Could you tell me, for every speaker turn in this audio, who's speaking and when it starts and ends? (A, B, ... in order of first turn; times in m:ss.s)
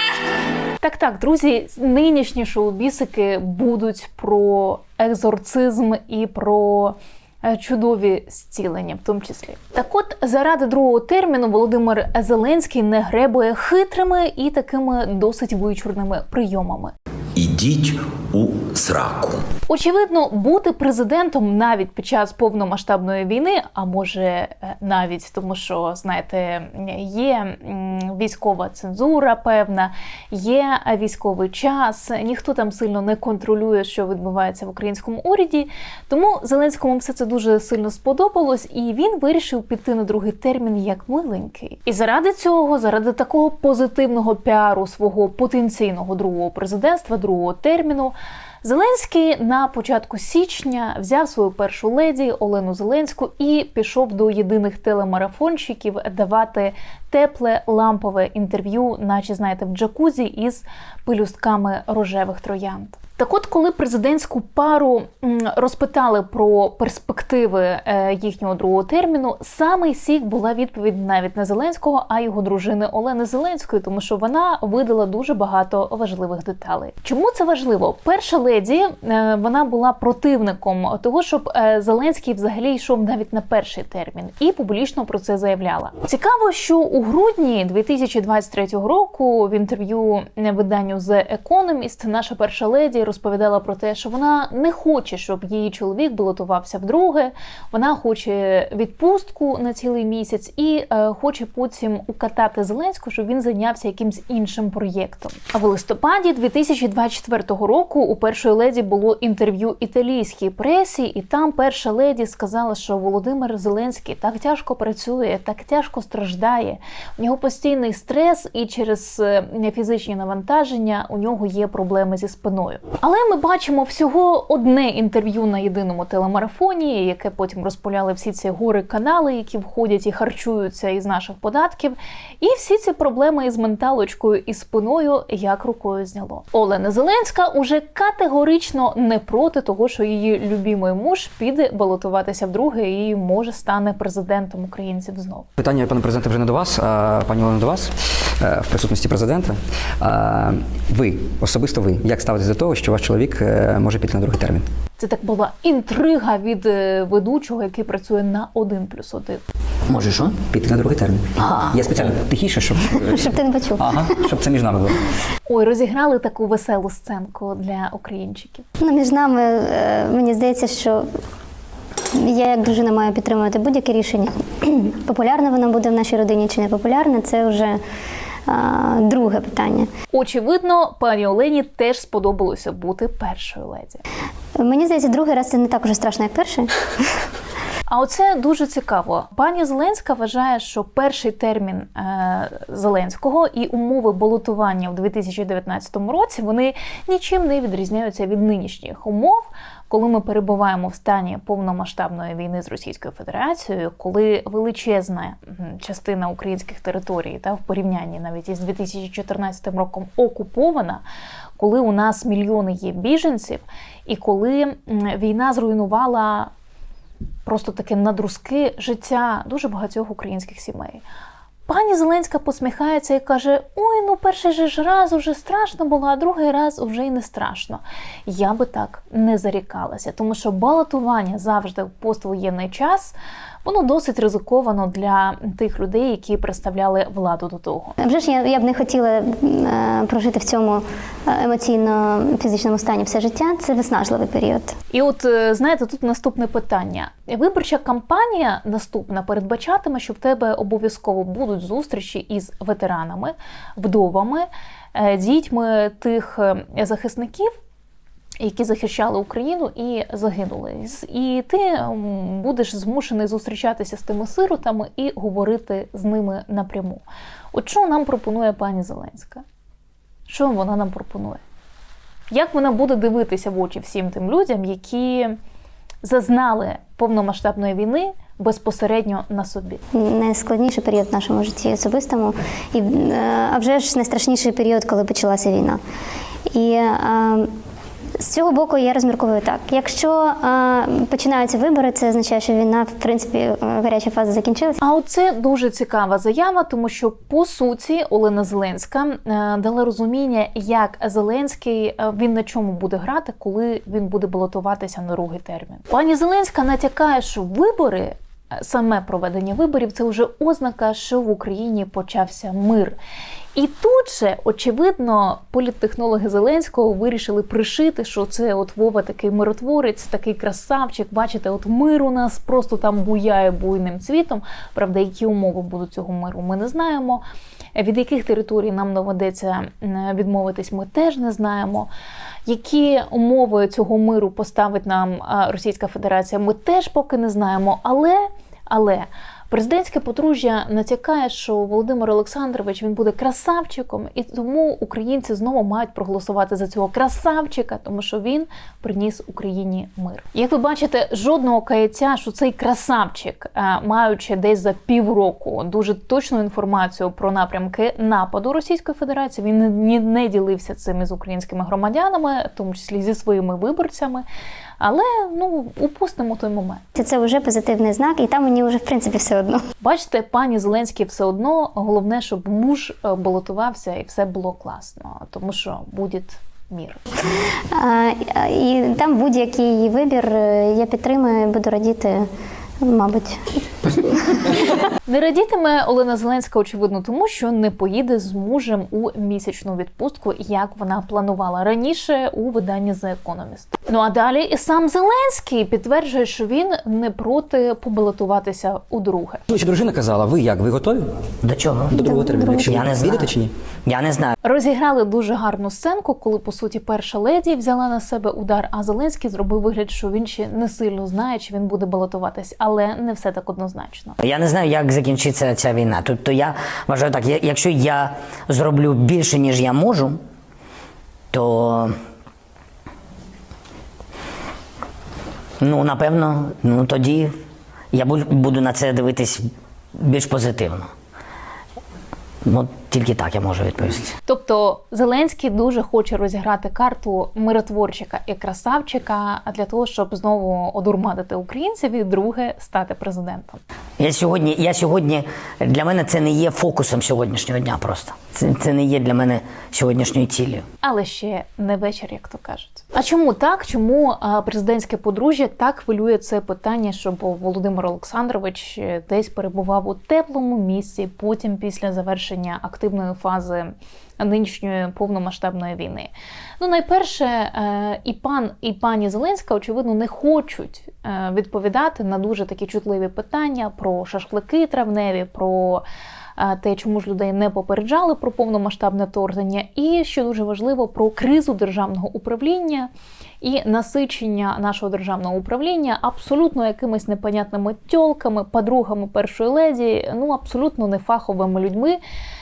0:00.8-0:16.9 A
0:17.4-0:19.4 B
0:19.7-2:25.5 A
2:25.6-2:34.7 C
2:35.0-2:39.4 A
2:39.9-2:40.3 D
2:40.5-2:43.2 C
2:41.4-2:41.8 D
2:42.9-2:44.0 E
2:43.8-2:45.0 C
2:45.5-2:48.6 A
2:48.8-2:51.0 E
2:52.1-2:57.8 E
2:58.5-2:59.9 E
3:00.1-3:04.0 A
3:04.6-3:07.1 E
3:07.9-3:31.0 A
3:31.6-3:36.5 A
3:37.5-3:41.0 A
3:41.7-3:58.0 A
3:58.0-4:04.7 E
4:04.9-4:17.5 A
4:18.4-4:29.4 A
4:30.3-4:31.4 A
4:32.3-4:35.4 A
4:36.0-4:39.8 A
4:39.9-4:45.8 E
4:46.5-4:47.5 E
4:48.2-4:54.8 E
4:54.8-5:13.0 A
5:13.6-5:27.2 A
5:27.8-5:31.9 A
5:32.5-6:04.2 A
6:04.8-6:06.8 A
6:07.0-6:09.6 E
6:09.8-6:17.0 A
6:17.7-6:22.3 E
6:22.8-6:24.4 E
6:25.0-6:39.4 A
6:39.5-6:41.1 C
6:41.4-6:42.0 D
6:41.9-6:43.5 C
6:42.0-6:42.8 E
6:42.6-6:43.4 D
6:43.9-6:44.3 D
6:44.4-6:54.2 A
6:54.2-7:00.2 D
7:01.3-7:01.9 D
7:05.6-7:07.3 D
7:07.9-7:09.4 D
7:09.9-7:10.9 D
7:12.4-7:14.1 D
7:14.3-7:23.6 A
7:24.0-7:30.6 D
7:30.8-7:55.8 A
7:56.4-8:02.9 A
8:03.4-8:12.0 A